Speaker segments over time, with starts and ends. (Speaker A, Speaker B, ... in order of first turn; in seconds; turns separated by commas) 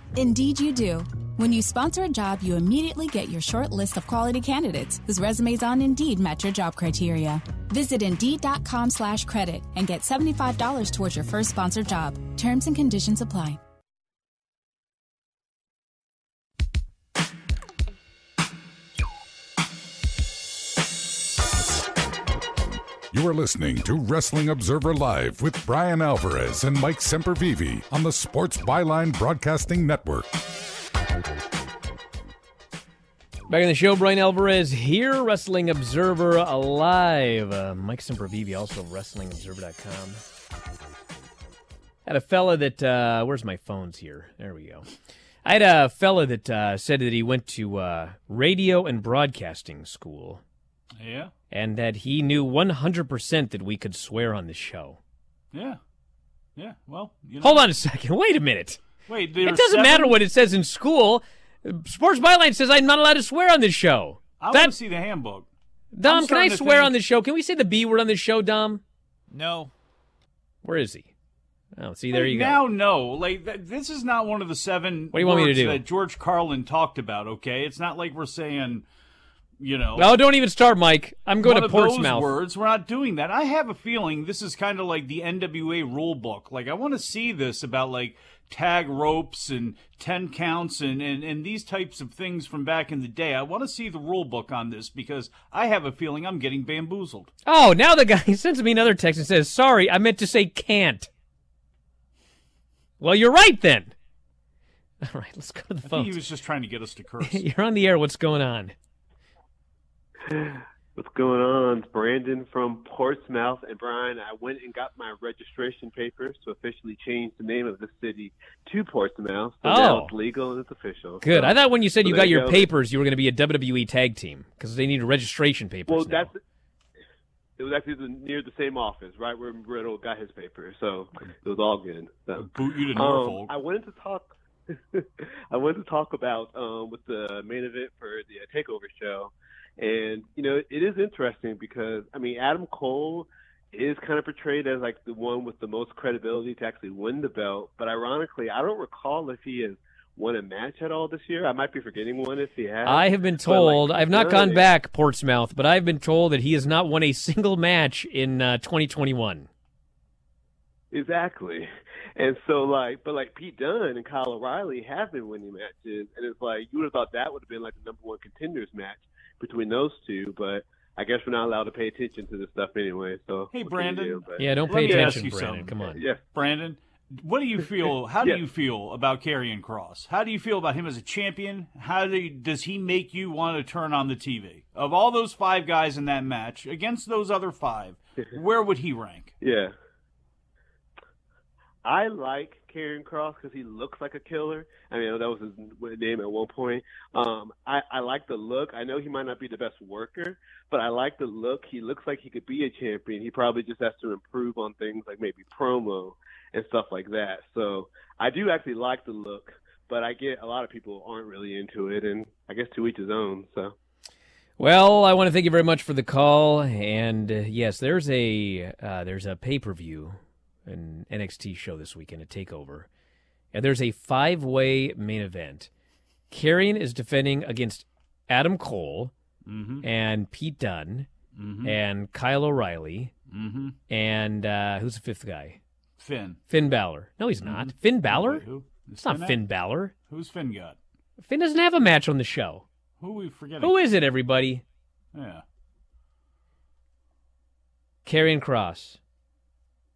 Speaker A: 0.1-13.6, Speaker B: 23.1-30.3, Speaker C: 33.5-40.2, Speaker C: 42.0-44.9, Speaker C: 45.4-50.4, Speaker D: 51.0-51.3, Speaker C: 51.5-55.0, Speaker D: 55.5-55.8, Speaker D: 56.5-57.7, Speaker C: 57.4-58.8, Speaker D: 59.0-60.1, Speaker C: 59.4-64.7, Speaker D: 64.4-65.5, Speaker C: 65.9-68.8, Speaker D: 66.0-66.9, Speaker D: 69.3-69.7, Speaker C: 70.6-71.1, Speaker C: 71.8-72.6, Speaker D: 72.1-78.8, Speaker C: 75.1-75.8, Speaker D: 79.6-80.1, Speaker C: 80.0-82.3, Speaker D: 81.4-97.3, Speaker C: 97.5-101.1, Speaker C: 103.0-103.9, Speaker C: 105.0-106.2, Speaker D: 105.9-107.4, Speaker C: 107.3-108.7, Speaker E: 110.2-122.7, Speaker C: 119.6-120.1, Speaker C: 121.2-126.3, Speaker E: 125.9-126.4, Speaker E: 127.6-134.3, Speaker D: 132.3-133.5, Speaker E: 134.9-154.7, Speaker C: 152.8-159.5, Speaker E: 160.9-175.1, Speaker D: 173.5-189.3, Speaker C: 174.4-176.0, Speaker E: 175.9-176.2, Speaker E: 189.4-189.7, Speaker E: 191.8-213.7, Speaker C: 214.6-222.9, Speaker C: 223.5-225.7, Speaker C: 226.3-229.1, Speaker D: 229.4-229.8, Speaker C: 229.8-231.1, Speaker D: 231.3-231.8, Speaker C: 231.6-233.1, Speaker D: 233.3-233.8, Speaker C: 233.9-235.6, Speaker D: 236.0-236.4, Speaker C: 236.5-238.4, Speaker D: 237.4-239.4, Speaker C: 239.0-239.9, Speaker D: 240.1-240.8, Speaker C: 241.2-242.6, Speaker D: 243.0-243.7, Speaker C: 243.6-244.6, Speaker D: 245.1-245.4, Speaker C: 248.1-249.0